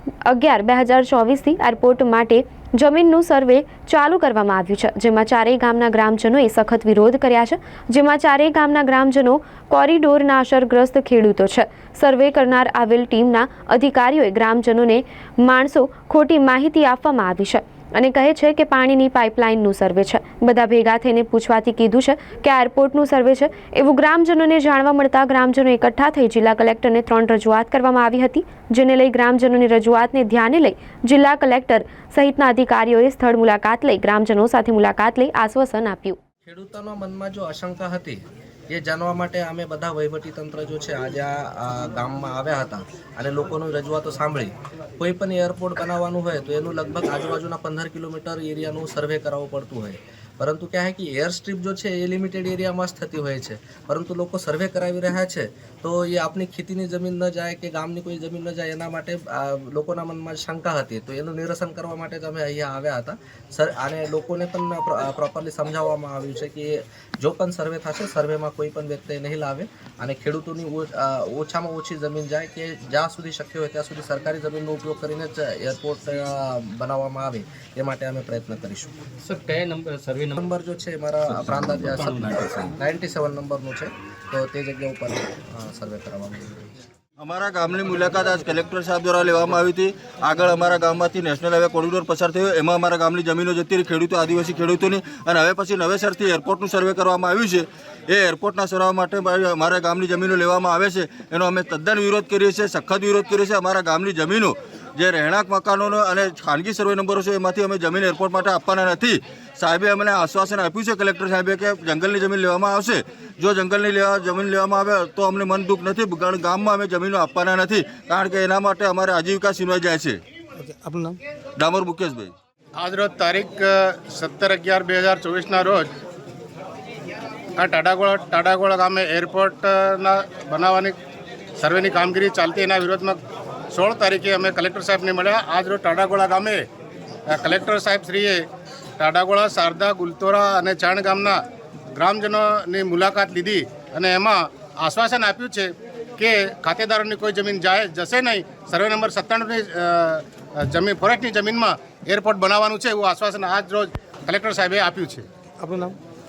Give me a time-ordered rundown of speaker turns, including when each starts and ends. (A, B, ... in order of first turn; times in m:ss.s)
0:00.2-0:36.2 A
0:36.5-1:18.9 B
1:19.2-1:20.4 C
1:20.4-1:26.7 B
1:21.4-1:22.7 C
1:27.2-2:00.2 D
2:00.6-2:01.2 C
2:01.6-2:02.3 D
2:02.8-2:05.9 E
2:07.6-2:11.0 E
2:11.6-2:13.2 E
2:13.7-2:16.6 E
2:17.3-2:18.5 E
2:19.0-2:21.4 E
2:21.9-2:35.3 E
2:35.6-2:36.0 C